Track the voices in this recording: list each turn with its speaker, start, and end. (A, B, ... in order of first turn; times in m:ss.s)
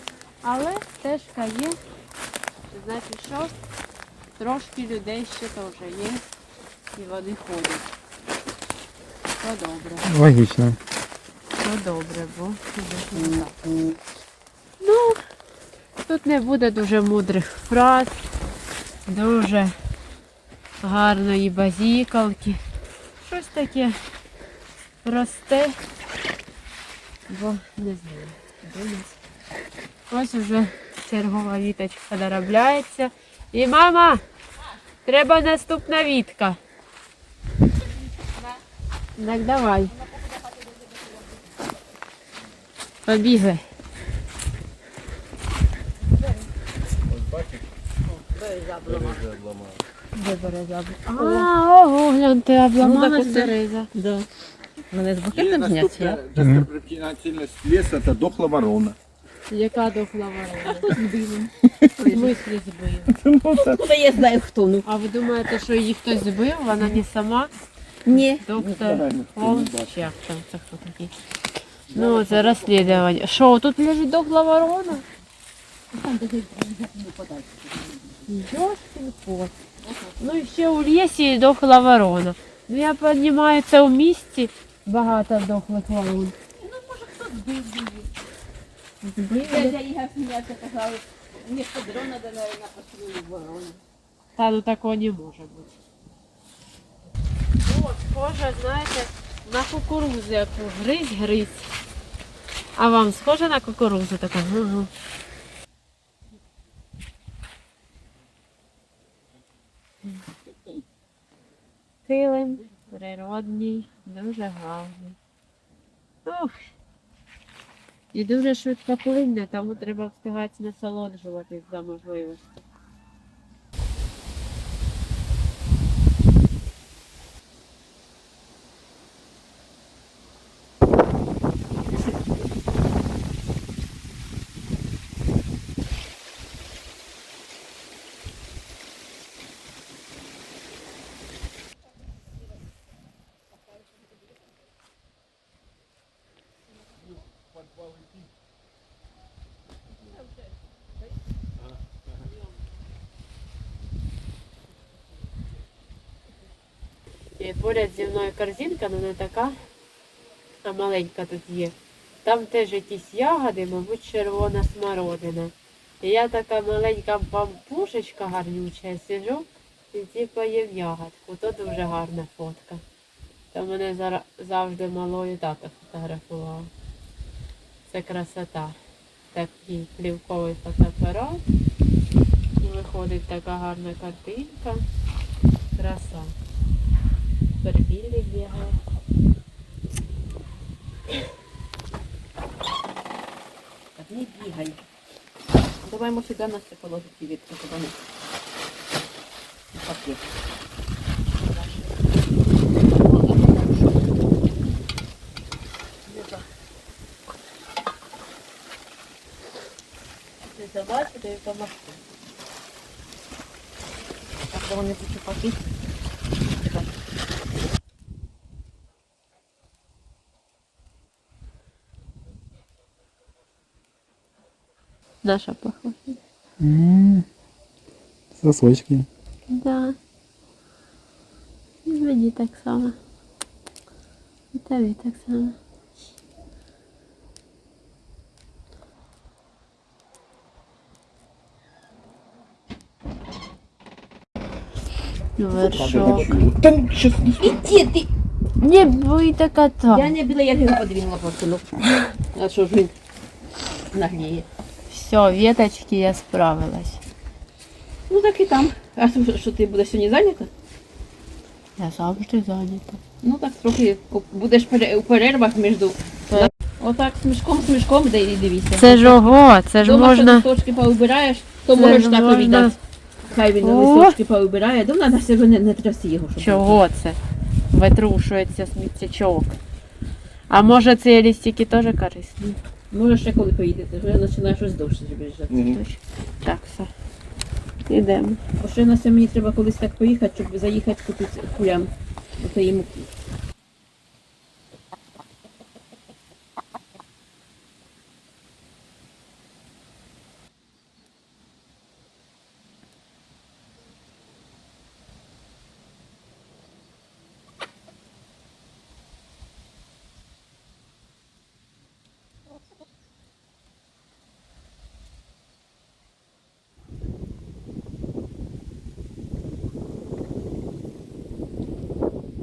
0:00.4-0:01.8 A
0:02.7-0:03.5 A
0:04.4-0:06.2 A
0:06.9-0:07.9 A
0:09.4-0:10.1 A
0:10.0-0:10.8 B
0:11.6-0:13.6 A
0:13.2-0:14.0 C
0:14.8-0:15.2 A
0:16.0-0:18.1 A
0:19.0-0:19.7 A
0:20.8-0:22.6 A
0:23.2-0:23.9 A
0:25.0-0:25.8 A
0:27.3-0:29.2 A
0:30.1-0:34.2 A
0:35.0-0:36.6 A
0:38.2-0:38.6 C
0:39.2-0:39.9 A
0:39.9-0:41.6 C
0:43.0-0:43.6 A
0:47.1-0:47.6 D
0:48.1-0:49.3 C
0:48.8-0:49.8 D
0:50.1-0:53.9 A
0:51.2-0:51.5 C
0:52.8-0:54.3 C
0:54.9-0:56.2 C
0:55.3-0:59.0 D
0:56.4-0:56.6 B
0:59.5-1:00.8 A
1:00.6-1:02.3 C
1:02.0-1:03.1 A
1:03.1-1:03.8 D
1:03.5-1:04.8 C
1:04.8-1:07.5 A
1:08.0-1:09.0 C
1:08.2-1:11.1 A
1:08.8-1:10.0 D
1:11.9-1:13.0 C
1:11.9-1:15.0 A
1:15.9-1:18.3 C
1:18.3-1:19.5 A
1:19.8-1:20.4 C
1:20.2-1:26.3 A
1:26.5-1:28.1 C
1:29.0-1:29.8 A
1:29.5-1:33.8 C
1:34.4-1:35.8 A
1:37.6-1:41.7 A
1:42.8-1:44.9 A
1:52.0-1:55.2 A
1:56.2-1:56.6 A
1:58.1-2:02.4 A
2:37.4-2:39.6 A
2:40.6-2:52.8 A
2:53.5-2:56.7 A
2:57.8-2:58.8 A
2:59.3-3:01.4 A
3:02.6-3:04.8 A
3:05.8-3:06.3 A
3:07.6-3:08.8 A
3:14.0-3:14.8 C
3:15.8-3:18.0 C
3:19.7-3:20.2 C
3:23.0-3:23.9 C
3:30.4-3:32.0 A
3:34.5-3:35.6 C
3:36.6-3:36.8 C
3:45.2-3:46.2 A
3:46.6-3:47.2 B
3:48.3-3:49.1 B
3:49.5-3:50.0 A
3:51.8-3:53.0 A
3:54.5-3:55.6 A
4:05.4-4:06.3 A
4:05.5-4:07.6 D
4:07.4-4:08.1 C
4:08.6-4:10.1 A
4:09.9-4:12.9 C
4:13.9-4:14.5 C
4:14.9-4:17.0 A
4:18.1-4:20.5 C
4:21.8-4:23.0 A
4:23.2-4:29.3 C
4:28.8-4:30.5 A
4:29.8-4:36.8 C
4:31.7-4:32.8 A
4:33.6-4:34.2 A
4:36.4-4:37.2 A
4:37.7-4:39.6 A
4:40.5-4:42.6 A
4:42.9-4:45.6 C
4:45.5-4:45.8 D
4:45.6-4:46.9 A
4:47.9-4:48.4 A
4:48.6-4:53.1 C